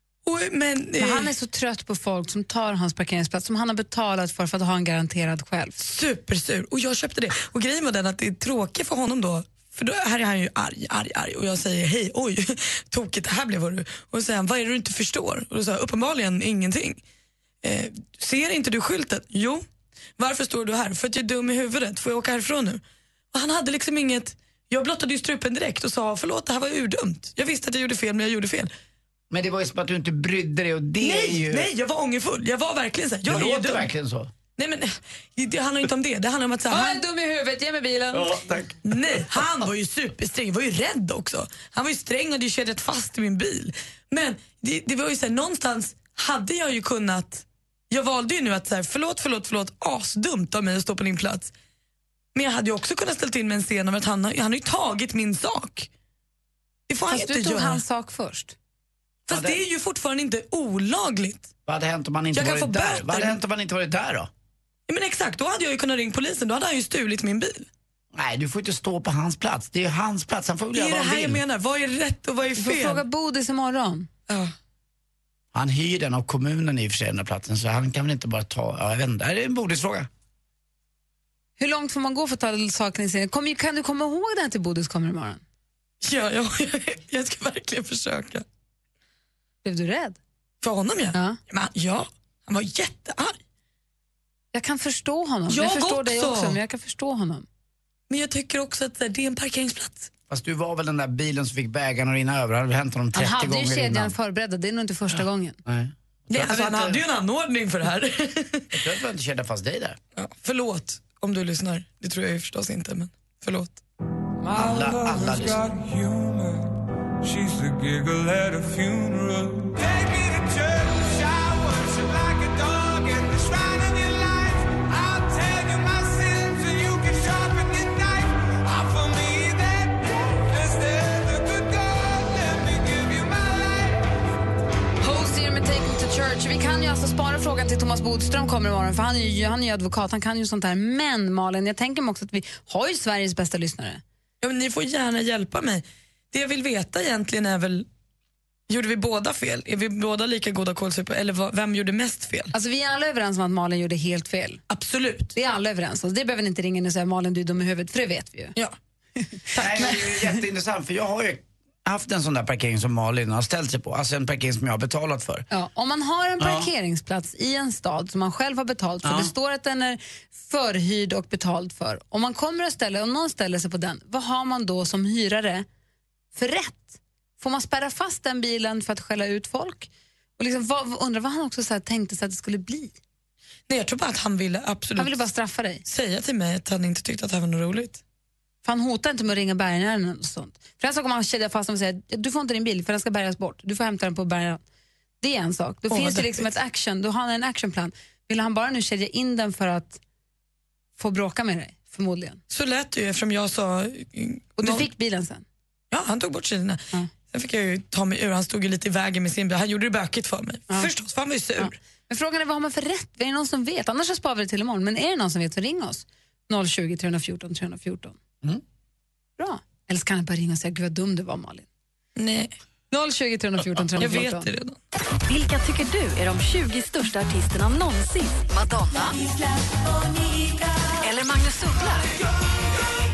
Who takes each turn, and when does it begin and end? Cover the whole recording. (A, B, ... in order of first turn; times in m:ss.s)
0:00.2-0:01.3 A
0:01.0-0:05.8 B
0:05.8-0:17.0 A
0:17.6-0:19.6 A
0:20.2-0:22.8 A
0:23.3-0:28.7 A
0:29.3-0:31.7 C
0:31.0-0:33.9 A
0:33.3-0:34.3 C
0:34.6-0:37.0 A
0:36.7-0:38.4 B
0:38.1-0:39.0 C
0:38.9-0:51.5 A
0:52.4-0:55.9 A
0:56.9-0:57.8 A
0:57.1-0:58.6 B
0:59.3-1:01.5 A
0:59.3-0:59.6 C
1:01.7-1:04.3 C
1:02.3-1:03.4 A
1:04.9-1:07.7 A
1:08.1-1:11.4 C
1:10.7-1:13.0 A
1:12.6-1:14.1 B
1:15.5-1:20.1 C
1:21.6-1:25.4 B
1:26.0-1:28.4 A
1:29.6-1:30.2 B
1:30.6-1:33.4 A
1:34.5-1:37.5 B
1:35.5-1:36.6 A
1:38.1-1:40.1 A
1:40.3-1:44.1 C
1:43.2-1:45.6 B
1:45.7-1:47.0 C
1:46.3-1:48.7 A
1:48.7-1:50.0 C
1:50.2-1:53.8 A
1:54.6-1:55.6 C
1:54.6-2:14.0 D
2:15.0-2:24.0 B
2:24.4-2:27.9 A
2:28.7-2:32.5 A
2:32.5-2:34.6 B
2:34.7-2:35.3 A
2:35.3-2:38.6 B
2:39.6-2:45.5 C
2:45.5-2:55.7 B
2:46.4-2:46.7 C
2:49.0-2:49.3 C
2:56.4-3:03.0 B
3:03.7-3:05.3 A
3:05.0-3:05.8 B
3:05.9-3:08.0 A
3:08.6-3:14.6 B
3:15.2-3:20.0 B
3:15.9-3:16.5 A
3:21.0-3:22.4 B
3:22.5-3:24.9 A
3:24.6-3:25.4 B
3:25.9-3:31.7 A
3:31.6-3:38.2 B
3:39.4-3:41.7 B
3:42.2-3:42.5 A
3:42.9-3:44.5 B
3:44.0-3:44.8 A
3:45.3-3:49.2 E
3:51.0-3:52.1 E